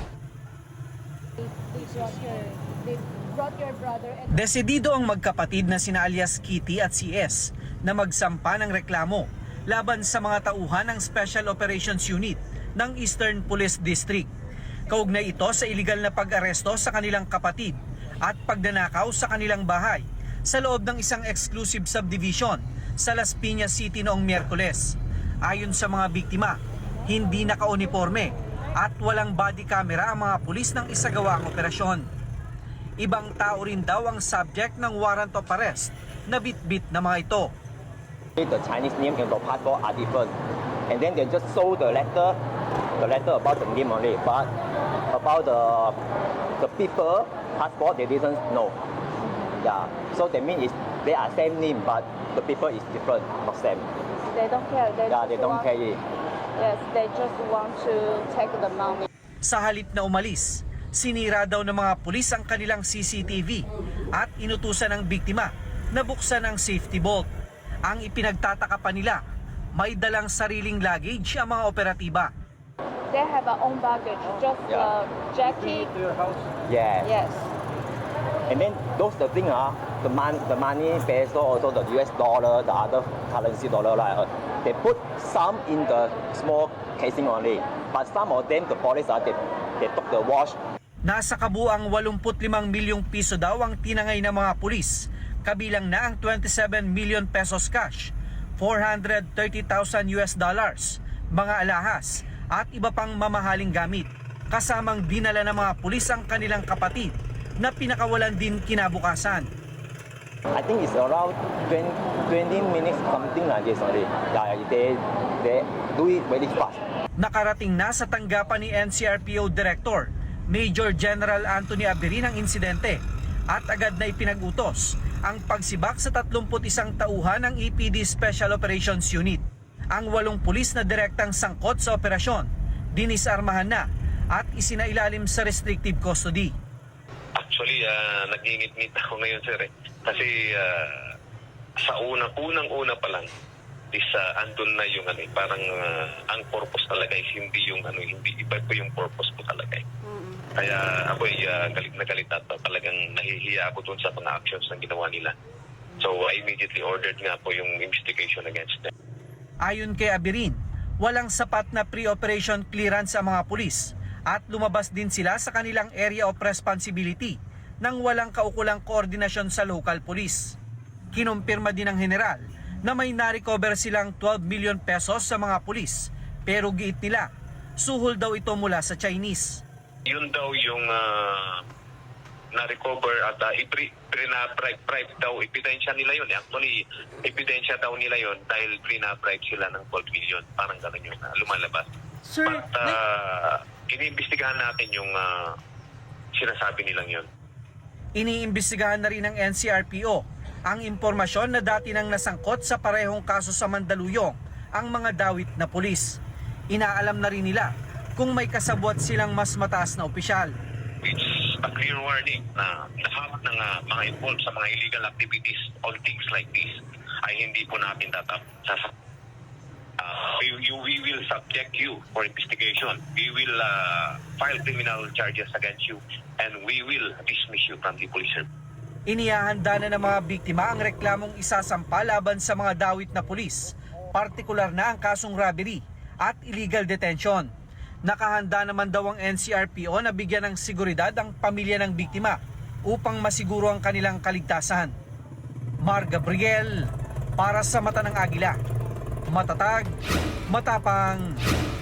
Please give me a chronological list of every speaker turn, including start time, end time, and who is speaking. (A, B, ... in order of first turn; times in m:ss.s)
0:01.4-0:04.3 A
0:04.3-0:14.3 B
0:14.9-0:32.1 B
0:33.0-0:37.5 B
0:38.4-0:40.3 C
0:40.9-0:42.4 C
0:43.0-0:44.5 C
0:45.1-0:46.0 C
0:46.6-0:48.8 C
0:49.6-0:53.9 C
0:54.3-0:55.7 A
0:55.1-0:56.0 C
0:56.6-0:59.1 A
0:59.4-1:07.3 B
1:07.8-1:09.2 B
1:09.8-1:12.3 B
1:13.1-1:16.3 A
1:14.7-1:14.9 C
1:16.6-1:17.1 C
1:17.0-1:17.5 A
1:18.5-1:30.6 C
1:31.0-1:49.5 B
1:50.5-1:56.8 C
1:57.2-2:03.0 B
2:03.5-2:09.4 B
2:09.9-2:16.5 B
2:17.4-2:21.0 D
2:21.8-2:23.3 D
2:23.9-2:29.8 D
2:30.5-2:35.3 D
2:36.0-2:38.9 D
2:39.6-2:50.6 B
2:51.1-2:57.3 B
2:57.8-2:59.6 B
3:00.1-3:01.6 D
3:02.5-3:15.5 D
3:16.3-3:17.3 D
3:18.2-3:26.2 B
3:26.7-3:30.5 B
3:31.0-3:38.9 D
3:40.0-3:48.5 D
3:49.1-3:57.5 B
3:58.0-4:04.9 B
4:05.8-4:08.6 B
4:09.3-4:09.9 B
4:10.5-4:11.4 B